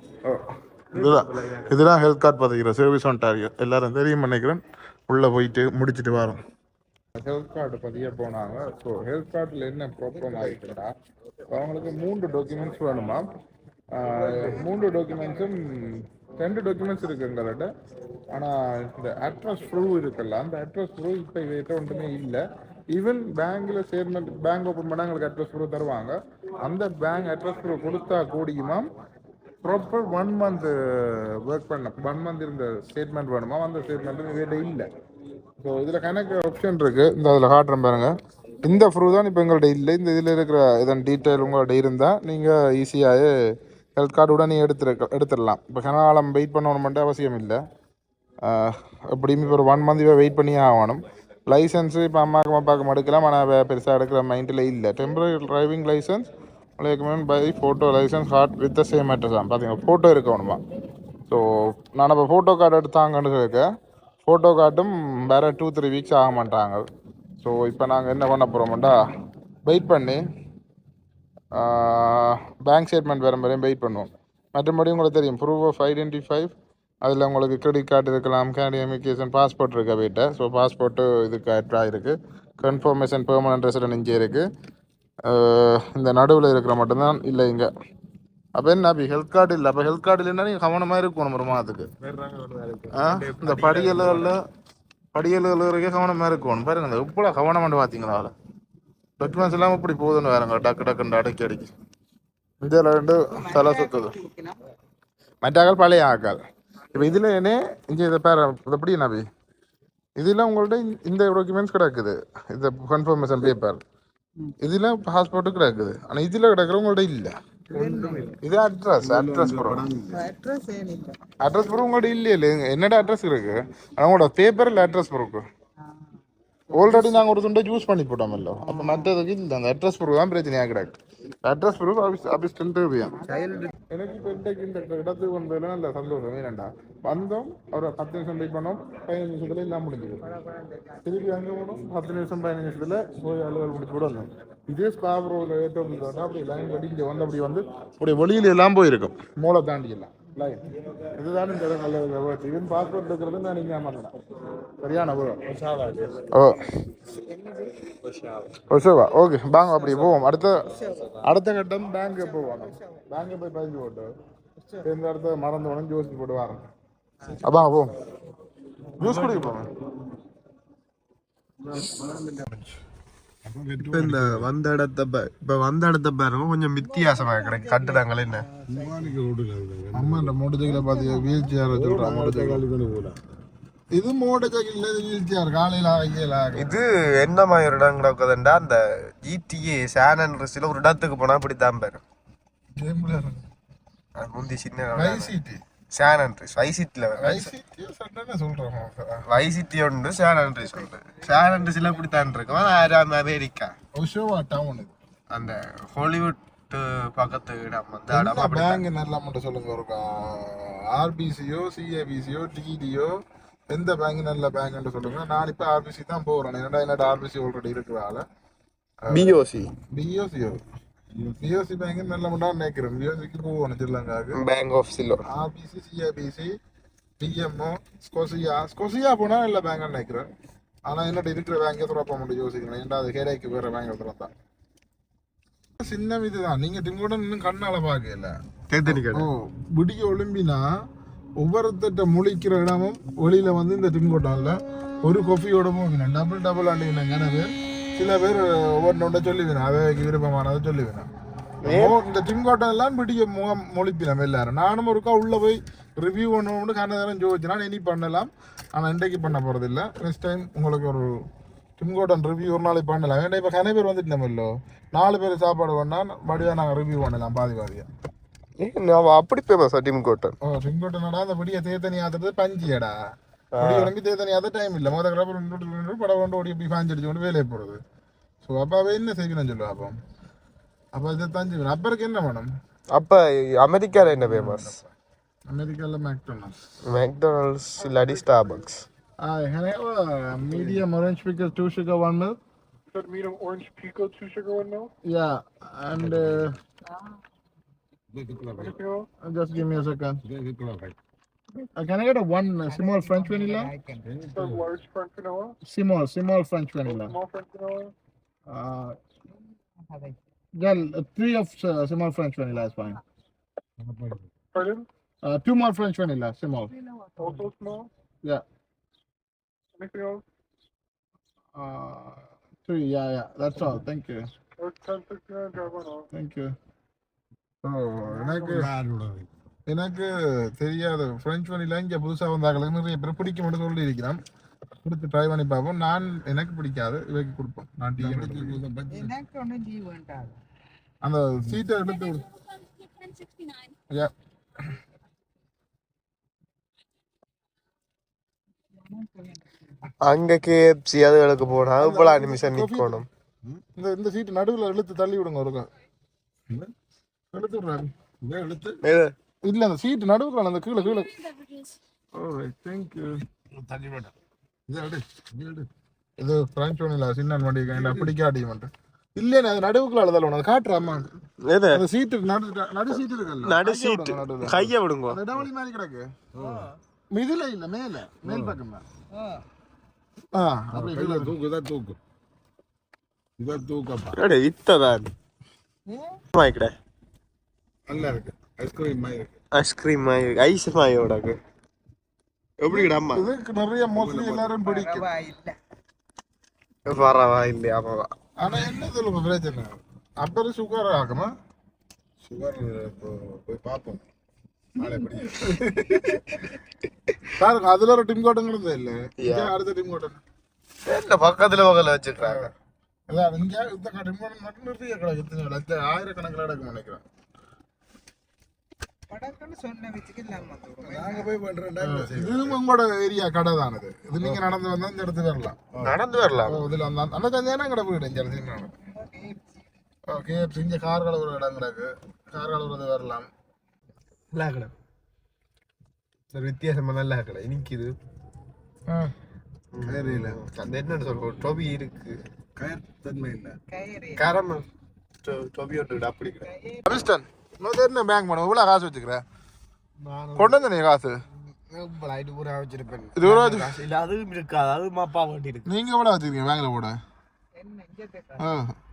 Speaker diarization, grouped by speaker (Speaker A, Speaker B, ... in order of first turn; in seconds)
Speaker A: 0.2-6.4, 7.2-10.9, 11.5-13.2, 13.9-17.7, 18.3-22.4, 22.9-28.9, 29.6-34.9, 35.6-43.3, 44.0-47.6, 48.4-60.6, 61.3-63.7, 64.2-66.8, 67.4-69.0, 69.6-70.2, 71.5-76.5, 77.0-84.4, 85.2-87.7, 88.5-91.9, 92.9-94.4, 95.1-98.3, 99.2-101.7, 102.6-104.1, 105.4-106.4, 106.9-109.2, 110.2-113.8, 114.6-117.3, 118.4-119.8, 121.4-125.4, 126.7-133.2, 133.9-140.2, 141.0-150.6, 151.2-154.1, 154.8-155.4, 156.3-156.6, 158.7-160.6, 161.2-164.1, 164.8-166.7, 167.4-167.9, 169.0-169.7, 179.9-182.6, 183.9-186.8, 192.8-193.4, 194.9-195.6, 197.2-199.2, 203.9-204.9, 208.1-213.2, 213.7-218.2, 219.0-220.6, 221.2-224.4, 225.3-226.6, 227.2-230.3, 230.9-234.3, 235.8-240.7, 241.4-251.1, 251.6-261.2, 261.8-267.9, 270.4-273.0, 273.6-277.8, 278.4-279.9, 280.9-282.5, 284.4-284.7, 285.5-286.6, 289.2-292.4, 295.0-296.6, 299.2-300.2, 301.7-303.7, 305.6-307.1, 308.5-308.9, 310.5-313.0, 315.2-316.7, 321.6-324.3, 326.1-326.5, 327.6-328.7, 329.7-334.2, 334.8-338.6, 341.0-342.2, 351.8-353.1, 353.8-355.7, 357.3-357.9, 359.4-361.3, 366.2-371.1, 371.7-376.1, 377.1-378.8, 380.3-381.3, 392.7-395.1, 398.4-401.3, 404.9-406.2, 407.4-410.2, 412.2-412.5, 413.1-417.0, 421.8-425.6, 426.4-428.7, 430.1-433.3, 438.9-439.1, 446.9-449.2, 450.4-451.1, 453.1-453.8, 455.6-457.0, 458.4-458.7
Speaker B: 0.9-1.7, 92.0-94.3, 117.7-118.4, 155.4-156.3, 158.0-158.6, 159.9-161.2, 169.0-169.6, 173.8-178.4, 186.5-192.0, 194.2-195.3, 195.9-197.5, 199.2-203.8, 205.3-208.8, 219.1-219.7, 224.3-225.2, 238.7-239.3, 251.6-252.0, 268.6-270.3, 273.5-273.9, 282.9-284.8, 286.9-288.9, 350.0-353.1, 358.8-359.1, 371.4-371.8, 373.4-375.2, 384.1-385.1, 386.3-386.7, 389.5-391.4, 392.6-393.3, 396.9-398.1, 409.2-409.5, 410.9-412.5, 425.8-426.7, 434.3-434.7, 436.3-437.9, 439.7-442.2, 444.2-444.6, 445.2-446.5, 450.1-450.5, 453.1-455.7
Speaker C: 103.3-104.6, 117.7-118.3, 120.1-121.2, 125.8-126.1, 126.7-127.2, 128.6-129.1, 133.1-133.8, 140.2-141.4, 157.3-157.8, 160.5-161.2, 162.0-163.1, 164.6-164.9, 176.8-179.2, 180.7-181.6, 200.7-202.0, 296.9-297.2, 302.7-304.1, 309.3-310.2, 316.7-317.5, 338.9-340.4, 348.8-349.6, 379.1-379.4, 385.9-386.2, 394.0-395.6, 419.1-421.4, 428.9-429.5, 443.7-444.3, 446.4-447.0, 457.6-458.6
Speaker D: 119.0-120.2, 171.6-172.7, 173.4-174.5, 178.7-180.3, 181.7-183.2, 290.5-290.8, 295.9-296.5, 298.1-298.8, 300.2-300.9, 304.0-304.7, 313.8-314.3, 328.1-329.3, 338.0-339.1, 358.2-358.8, 362.2-364.1, 364.7-365.7, 367.7-368.1, 376.3-376.7, 380.7-382.0, 383.4-384.2, 387.9-389.4, 402.2-404.0, 404.8-405.3, 420.8-422.6, 425.7-426.0, 439.8-440.5, 442.6-443.6, 450.0-450.4, 451.4-453.1
Speaker E: 287.8-288.5, 292.9-294.9, 298.6-299.1, 304.3-305.5, 306.8-307.9, 314.5-314.8, 317.2-317.9, 319.8-320.2, 324.6-326.0